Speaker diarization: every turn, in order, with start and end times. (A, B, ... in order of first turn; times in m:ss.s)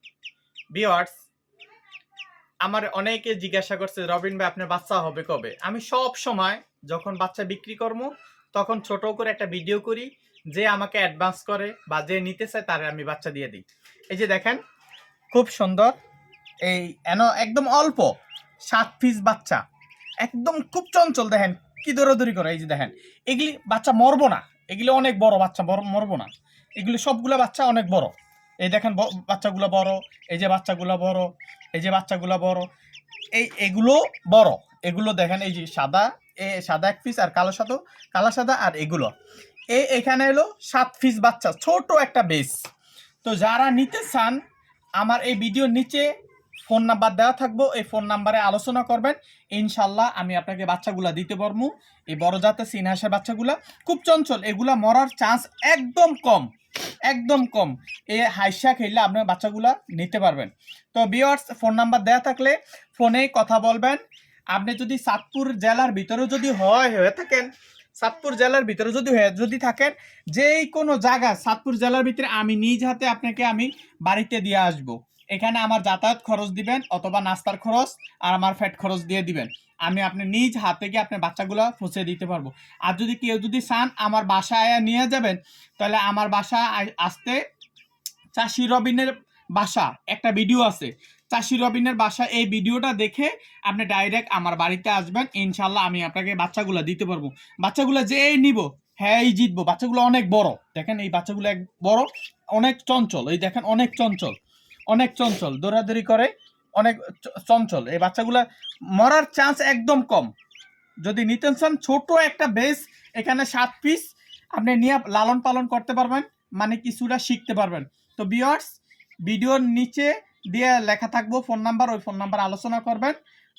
0:00.7-0:01.2 A
0:02.6-0:14.6 A
0:15.3-0:15.9 A
0:16.6-0:18.1 A
0:18.7-0:19.6 A
0:20.2-0:32.7 A
0:33.3-0:39.1 A
0:39.7-0:42.6 A
0:43.2-0:44.4 A
0:45.0-0:46.1 A
0:46.6-0:56.5 A
0:57.1-1:04.0 A
1:04.5-1:07.5 A
1:08.0-1:27.4 A
1:28.3-1:44.4 A
1:44.9-1:50.3 A
1:51.0-1:58.7 A
1:59.2-2:03.2 A